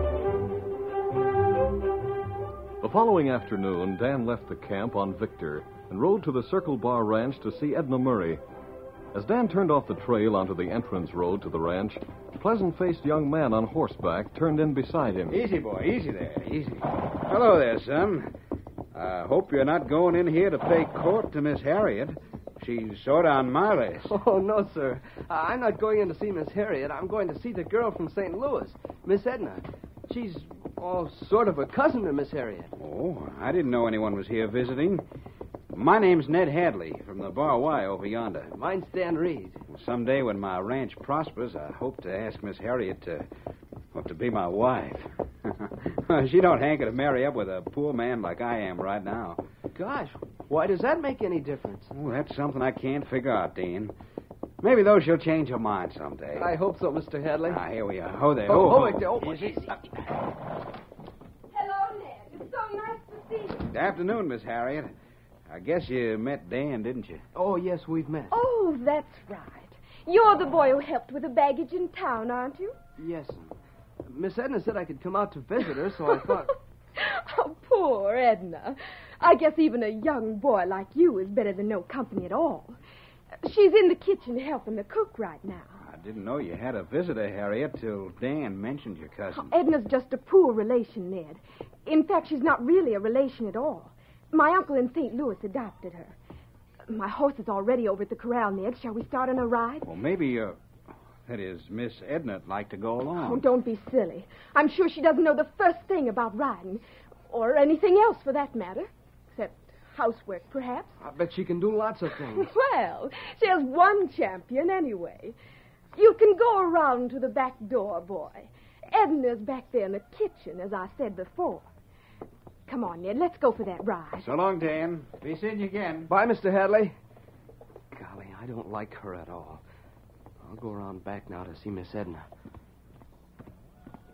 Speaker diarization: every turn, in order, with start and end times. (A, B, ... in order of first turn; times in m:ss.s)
0:02.8-0:08.4 A
0:09.1-0:15.4 A
0:15.3-0:18.3 B
0:18.9-0:24.1 B
0:24.1-0:32.7 C
0:32.8-0:35.0 B
0:35.7-0:38.6 B
0:38.5-0:39.6 C
0:39.7-0:43.3 B
0:43.9-0:49.4 B
0:49.7-0:51.9 C
0:51.9-0:54.0 B
0:54.6-0:56.5 B
0:56.4-0:57.6 C
0:57.4-0:59.8 B
0:58.4-0:59.7 C
1:01.5-1:03.6 D
1:03.7-1:04.9 B
1:05.5-1:07.2 B
1:07.3-1:08.3 C
1:08.3-1:12.8 D
1:13.0-1:13.6 C
1:14.1-1:16.6 C
1:17.0-1:22.8 D
1:23.4-1:25.7 D
1:25.8-1:29.5 B
1:29.3-1:36.2 D
1:36.9-1:39.9 D
1:39.8-1:40.6 B
1:41.2-1:43.4 B
1:43.2-1:51.0 D
1:51.0-1:52.5 C
1:52.3-1:55.4 D
1:55.9-2:01.6 D
2:02.7-2:04.3 D
2:04.2-2:06.1 B
2:06.1-2:06.9 C
2:07.9-2:09.6 C
2:10.4-2:12.2 C